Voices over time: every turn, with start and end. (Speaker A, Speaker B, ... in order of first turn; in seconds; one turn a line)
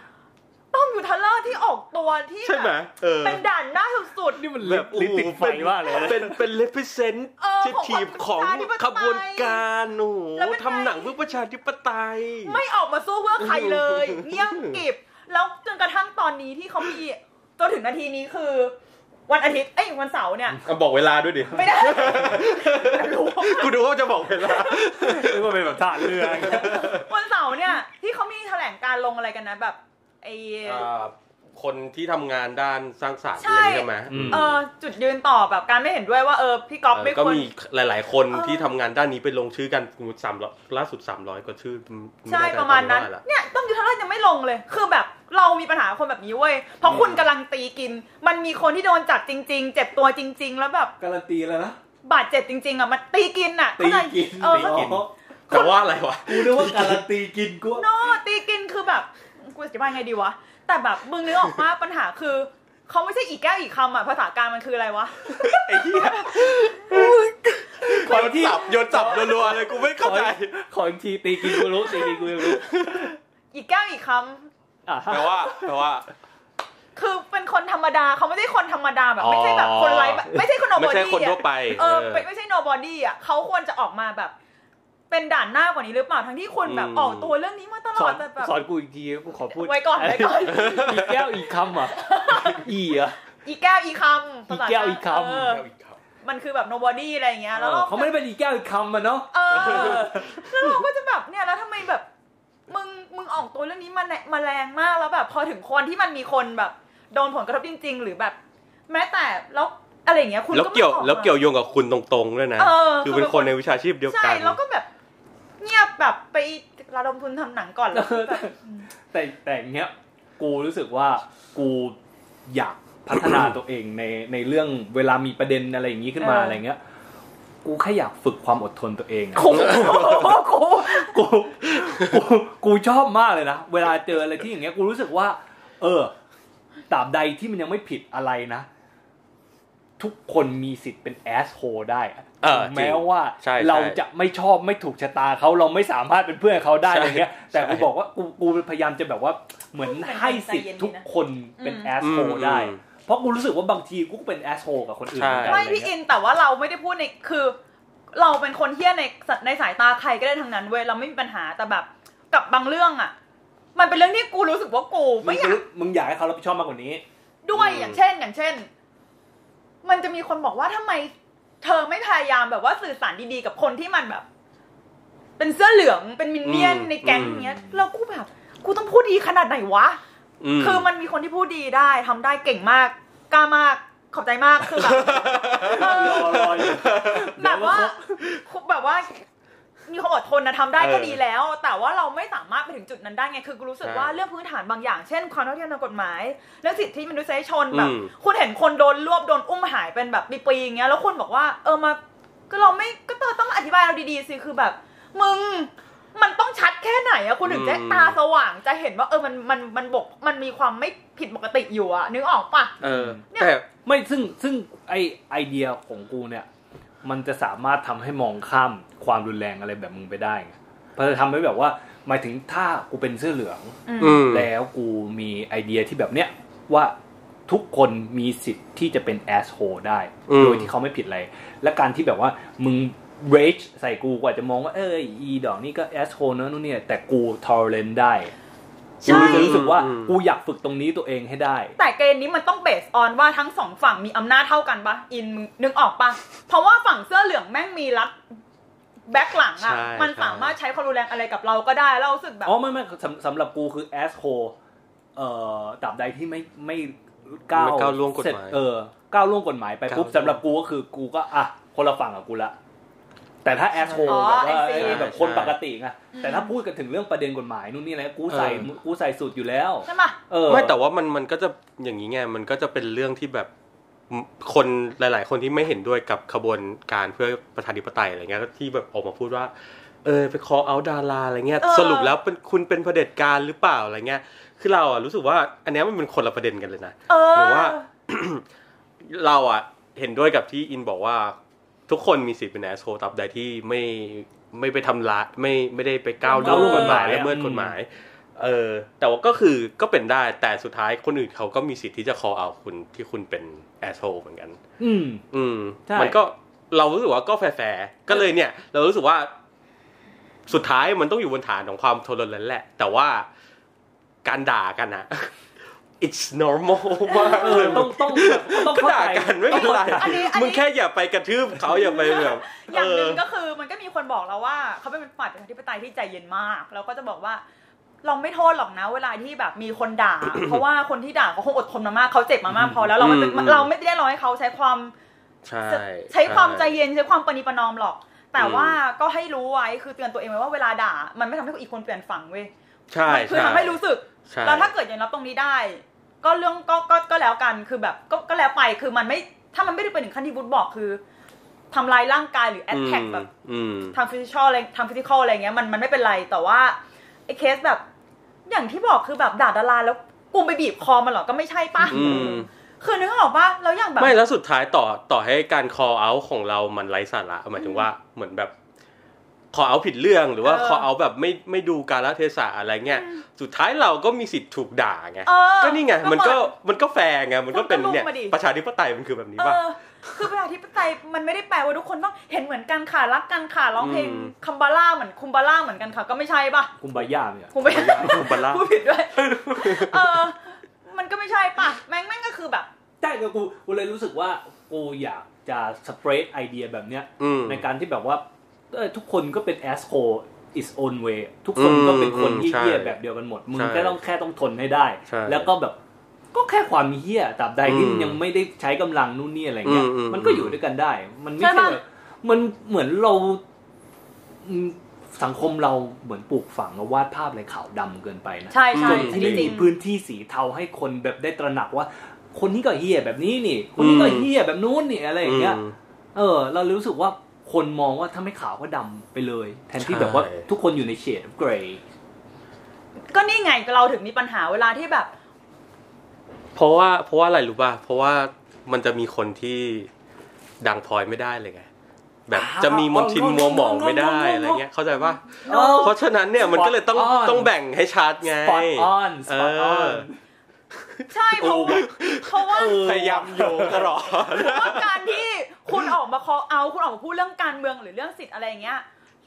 Speaker A: 0.7-4.4
Speaker B: 2.4-3.4
Speaker C: 4.3-6.4
Speaker B: 4.6-12.6
Speaker A: 7.4-9.6
Speaker A: 10.4-11.2
Speaker A: 12.4-18.8
Speaker B: 13.4-14.8
Speaker A: 19.3-20.6
Speaker B: 20.6-27.1
Speaker A: 21.5-23.8
Speaker C: 24.7-27.0
Speaker A: 26.5-30.9
Speaker B: 30.6-34.6
Speaker A: 33.4-37.5
Speaker C: 34.1-34.6
Speaker B: 36.9-43.2
Speaker A: 38.3-38.7
Speaker A: 42.3-50.9
Speaker B: 46.8-47.3
Speaker C: 51.0-51.8
Speaker A: 52.0-55.0
Speaker C: 53.8-55.1
Speaker B: 54.5-57.0
Speaker A: 55.5-55.8
Speaker C: 56.2-57.9
Speaker A: 57.8-66.6
Speaker B: 65.3-70.5
Speaker C: 66.9-67.2
Speaker C: 67.8-73.1
Speaker B: 71.4-73.1
Speaker A: 73.5-74.5
Speaker C: 74.9-75.7
Speaker B: 75.1-76.1
Speaker A: 77.0-84.3
Speaker B: 79.2-82.3
Speaker A: 85.1-88.6
Speaker B: 86.7-87.3
Speaker C: 88.0-93.2
Speaker A: 89.5-91.0
Speaker B: 90.5-91.3
Speaker A: 91.8-92.7
Speaker A: 93.5-95.7
Speaker C: 94.5-95.5
Speaker B: 95.3-96.0
Speaker A: 96.2-98.2
Speaker C: 97.5-100.4
Speaker A: 99.3-102.1
Speaker B: 99.5-100.8
Speaker A: 102.7-108.4
Speaker A: 108.9-111.3
Speaker B: 110.5-114.6
Speaker A: 112.6-114.9
Speaker A: 115.6-118.9
Speaker C: 117.9-118.6
Speaker C: 119.1-126.8
Speaker A: 126.2-126.6
Speaker C: 127.6-136.1
Speaker A: 129.3-131.2
Speaker B: 129.5-130.3
Speaker C: 136.9-138.7
Speaker C: 140.0-155.9
Speaker B: 142.4-144.0
Speaker B: 146.8-147.9
Speaker A: 149.8-151.0
Speaker A: 151.6-151.9
Speaker B: 152.0-152.8
Speaker B: 155.2-155.6
Speaker A: 155.5-157.6
Speaker A: 158.1-163.1
Speaker A: 163.8-165.6
Speaker C: 165.2-167.0
Speaker A: 167.4-168.7
Speaker B: 167.5-168.0
Speaker A: 169.8-174.2
Speaker A: 175.4-180.0
Speaker B: 176.4-177.5
Speaker B: 180.4-180.9
Speaker A: 180.6-189.2
Speaker B: 184.6-187.3
Speaker C: 185.6-188.0
Speaker A: 189.9-202.0
Speaker B: 190.8-191.2
Speaker B: 193.8-194.2
Speaker B: 197.7-198.1
Speaker A: 202.5-212.8
Speaker B: 207.4-208.2
Speaker C: 212.8-213.2
Speaker B: 212.8-213.7
Speaker C: 213.8-216.5
Speaker C: 217.0-226.9
Speaker A: 223.9-224.3
Speaker B: 224.0-224.5
Speaker C: 227.5-238.3
Speaker B: 230.3-230.7
Speaker A: 239.0-239.6
Speaker B: 239.0-240.2
Speaker C: 239.0-241.8
Speaker A: 241.8-248.2
Speaker A: 249.1-252.5
Speaker B: 249.6-250.6
Speaker C: 252.4-254.6
Speaker C: 255.2-262.6
Speaker B: 257.5-258.6
Speaker B: 259.9-260.4
Speaker C: 263.4-270.8
Speaker B: 263.9-265.6
Speaker A: 264.0-265.1
Speaker A: 266.1-266.5
Speaker B: 268.3-268.7
Speaker A: 269.9-270.2
Speaker B: 270.5-273.5
Speaker B: 274.1-279.5
Speaker B: 280.0-288.4
Speaker A: 281.6-282.2
Speaker A: 287.1-287.9
Speaker B: 289.0-291.4
Speaker B: 291.9-304.6
Speaker A: 296.2-297.1
Speaker C: 296.4-297.8
Speaker C: 304.8-305.2
Speaker B: 305.3-309.3
Speaker C: 305.9-306.2
Speaker B: 310.5-313.3
Speaker B: 314.2-315.3
Speaker B: 316.0-323.2
Speaker A: 317.1-317.9
Speaker C: 317.3-320.3
Speaker A: 319.5-320.6
Speaker A: 321.7-327.4
Speaker A: 328.0-334.9
Speaker B: 330.3-330.6
Speaker C: 332.5-332.9
Speaker B: 333.0-333.7
Speaker B: 335.4-336.8
Speaker A: 335.7-342.5
Speaker B: 338.4-338.8
Speaker B: 342.9-344.7
Speaker A: 343.1-351.0
Speaker A: 351.7-353.3
Speaker B: 352.7-354.0
Speaker A: 353.9-357.8
Speaker A: 358.5-364.1
Speaker B: 361.8-362.5
Speaker B: 364.0-368.5
Speaker A: 367.6-367.9
Speaker B: 369.5-379.6
Speaker A: 370.4-370.9
Speaker A: 372.9-373.2
Speaker A: 375.3-376.5
Speaker A: 377.5-378.4
Speaker A: 379.4-386.7
Speaker B: 383.8-384.3
Speaker C: 386.8-388.3
Speaker A: 387.5-392.7
Speaker B: 387.6-388.6
Speaker B: 389.5-390.0
Speaker C: 393.0-405.8
Speaker B: 397.2-397.7
Speaker B: 401.6-403.0
Speaker B: 403.5-404.0
Speaker B: 405.1-405.5
Speaker C: 406.3-413.4
Speaker B: 407.6-408.2
Speaker B: 409.6-410.6
Speaker A: 411.4-411.8
Speaker C: 414.4-425.6
Speaker A: 418.5-419.7
Speaker B: 418.7-419.6
Speaker B: 423.8-424.3
Speaker B: 425.2-425.8
Speaker C: 426.1-431.8
Speaker B: 429.8-430.4
Speaker A: 433.1-435.1
Speaker B: 436.6-439.9
Speaker B: 440.6-441.7
Speaker B: 442.3-450.1
Speaker C: 442.3-444.6
Speaker A: 445.4-446.0
Speaker C: 445.5-447.5
Speaker C: 448.3-450.2
Speaker B: 450.8-455.1
Speaker A: 451.1-453.0
Speaker C: 451.4-451.9
Speaker C: 452.5-453.9
Speaker A: 454.2-458.9